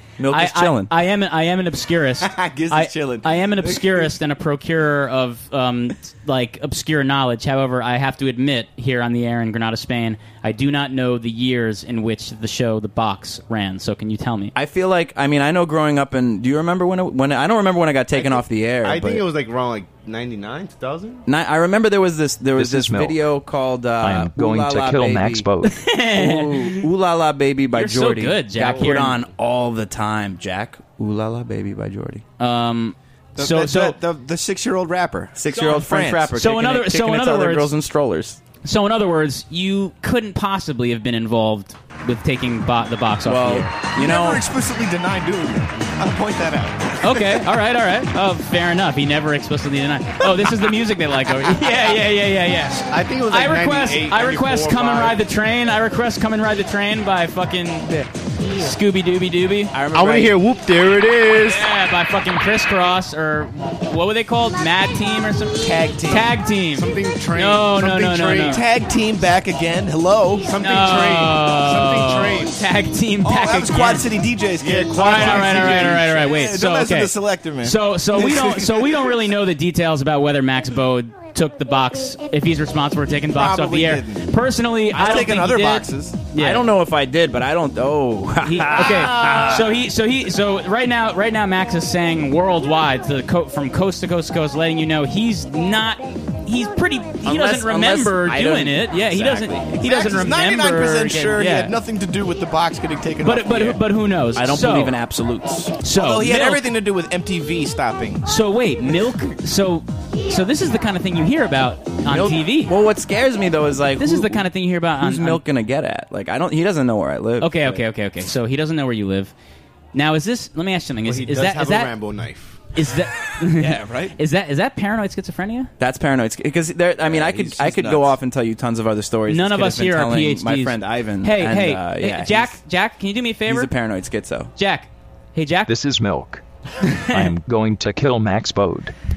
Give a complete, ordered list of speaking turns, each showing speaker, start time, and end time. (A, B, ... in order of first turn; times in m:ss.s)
0:00.2-0:00.9 A
0:00.3-0:14.5 B
0:02.2-0:04.1 C
0:14.6-0:19.3 A
0:18.1-0:21.2 D
0:21.3-0:25.5 A
0:22.6-0:23.3 E
0:24.0-0:25.8 E
0:25.6-0:26.9 B
0:26.1-0:32.2 A
0:27.7-0:29.2 B
0:32.4-0:34.0 B
0:33.4-0:36.3 C
0:35.4-0:38.4 A
0:36.4-0:37.7 B
0:38.6-0:43.8 B
0:43.2-0:44.4 A
0:43.9-0:47.4 C
0:47.0-0:59.8 B
0:52.9-0:55.2 D
0:59.7-1:00.4 A
0:59.9-1:01.7 D
1:01.4-1:08.6 B
1:05.6-1:06.3 C
1:06.2-1:08.6 D
1:08.5-1:10.5 C
1:10.4-1:12.6 D
1:10.6-1:14.1 B
1:13.2-1:19.1 C
1:14.6-1:16.2 D
1:14.9-1:26.7 B
1:23.3-1:24.3 C
1:24.9-1:26.2 C
1:26.4-1:29.8 A
1:28.4-1:41.8 B
1:37.2-1:39.8 A
1:39.8-1:43.8 C
1:43.2-1:45.0 B
1:44.4-1:45.8 A
1:45.8-1:46.7 B
1:45.9-1:48.2 C
1:48.2-1:52.7 B
1:52.1-1:54.5 A
1:54.0-1:55.4 B
1:55.0-1:57.8 A
1:57.4-1:59.3 B
1:59.9-2:01.9 B
2:01.0-2:02.6 D
2:02.8-2:05.7 B
2:03.6-2:04.2 C
2:05.8-2:12.6 A
2:07.0-2:08.1 C
2:09.3-2:13.7 B
2:13.5-2:14.5 A
2:14.6-2:15.7 B
2:15.7-2:16.4 E
2:16.8-2:17.3 B
2:17.1-2:18.9 E